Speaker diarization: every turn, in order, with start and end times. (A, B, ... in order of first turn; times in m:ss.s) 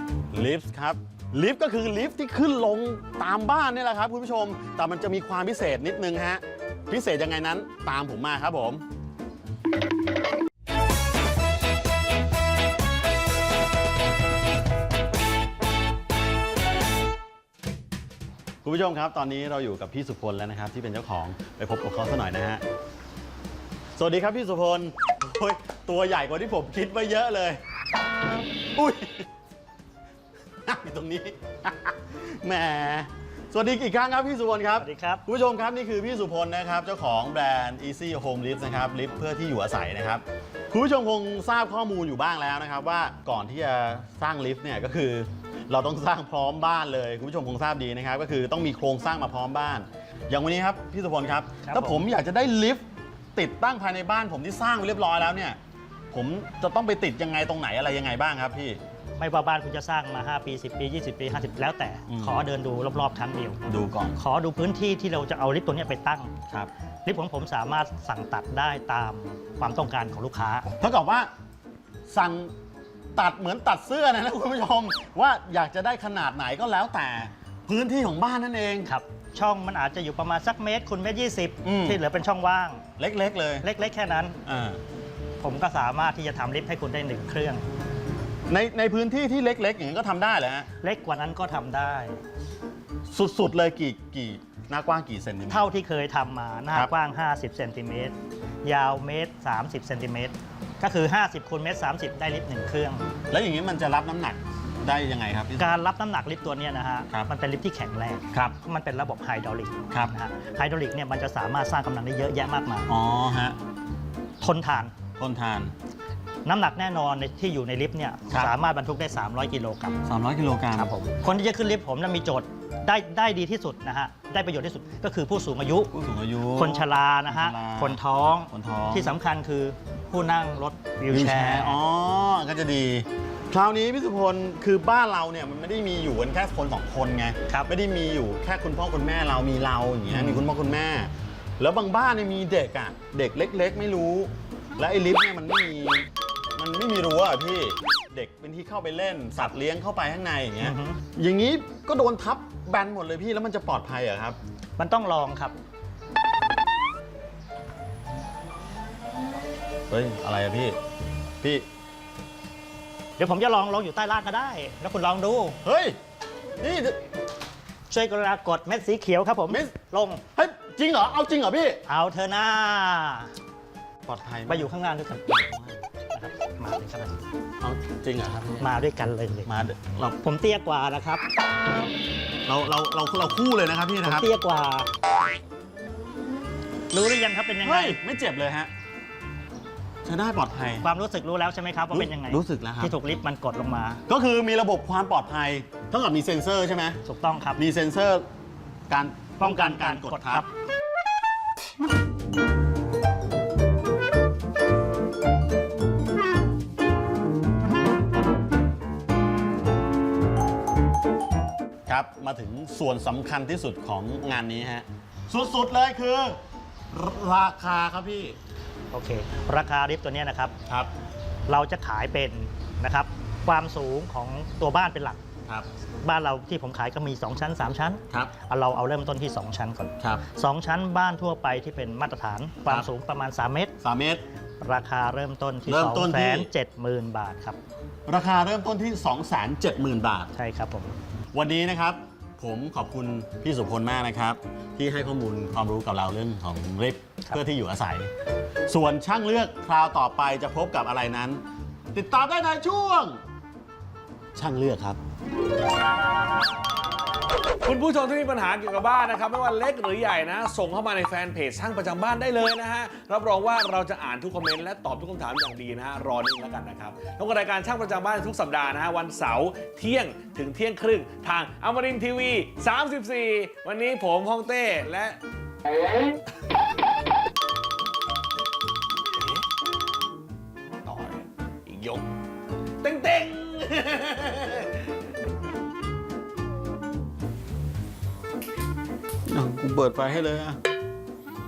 0:00.3-0:08.8 A
0:18.6-0:22.6 A
0:24.0-0:27.6 A
0:28.7-0:29.3 A
0:30.6-0:52.8 A
0:34.8-0:35.2 B
0:51.6-0:52.0 B
0:53.4-0:55.6 A
0:56.1-0:58.8 A
0:59.2-1:03.6 B
1:02.1-1:02.4 A
1:03.7-1:04.2 A
1:04.2-1:06.3 B
1:07.0-1:10.7 B
1:10.8-1:11.3 A
1:12.1-1:12.5 A
1:13.2-1:18.9 A
1:18.9-1:22.8 B
1:21.6-1:22.0 A
1:23.0-1:23.7 A
1:23.6-1:24.4 B
1:24.5-1:24.8 A
1:25.4-1:27.7 B
1:28.5-1:30.7 A
1:30.8-1:32.2 B
1:33.1-1:35.7 A
1:35.5-1:43.1 B
1:43.3-1:45.7 A
1:45.6-1:52.9 B
1:48.3-1:48.6 A
1:52.9-1:53.6 A
1:54.4-1:54.9 B
1:55.2-1:55.7 A
1:56.4-2:00.0 B
1:58.3-1:58.6 A
2:00.0-2:00.9 A
2:00.7-2:05.9 B
2:05.9-2:08.0 A
2:06.5-2:11.8 B
2:08.5-2:09.2 A
2:11.1-2:34.4 A
2:20.1-2:20.5 B
2:30.6-2:31.0 B
2:34.8-2:35.6 B
2:39.9-2:40.8 A
2:41.4-2:41.7 A
2:43.2-2:45.6 B
2:45.6-2:46.0 A
2:46.6-2:47.0 A
2:47.9-2:50.2 B
2:49.5-2:49.7 A
2:50.4-2:51.8 A
2:51.9-2:53.3 B
2:54.0-2:54.7 A
2:54.5-2:55.5 B
2:56.1-2:57.2 B
2:57.6-2:58.7 A
2:58.6-2:59.5 B
2:59.5-3:00.2 A
3:00.2-3:01.2 B
3:02.5-3:04.3 A
3:04.0-3:04.9 B
3:06.9-3:08.0 B
3:07.6-3:08.7 A
3:10.0-3:10.9 A
3:10.8-3:14.0 B
3:11.9-3:12.9 A
3:14.1-3:17.0 A
3:17.0-3:17.6 B
3:17.6-3:18.3 A
3:18.9-3:20.4 A
3:19.4-3:20.5 B
3:31.9-3:36.4 A
3:36.9-3:38.4 A
3:38.9-3:40.5 B
3:40.7-3:40.9 A
3:41.5-3:45.2 B
3:46.0-3:53.7 B
3:53.8-3:54.2 A
3:54.6-3:57.6 B
3:55.7-3:56.5 A
3:58.1-4:00.3 A
4:00.3-4:01.0 B
4:01.3-4:08.1 A
4:08.7-4:11.4 A
4:11.9-4:13.2 A
4:14.4-4:15.0 A
4:17.6-4:35.2 C
4:39.2-4:39.4 C
4:40.8-4:42.1 C
4:42.8-4:44.9 C
4:49.3-4:50.6 A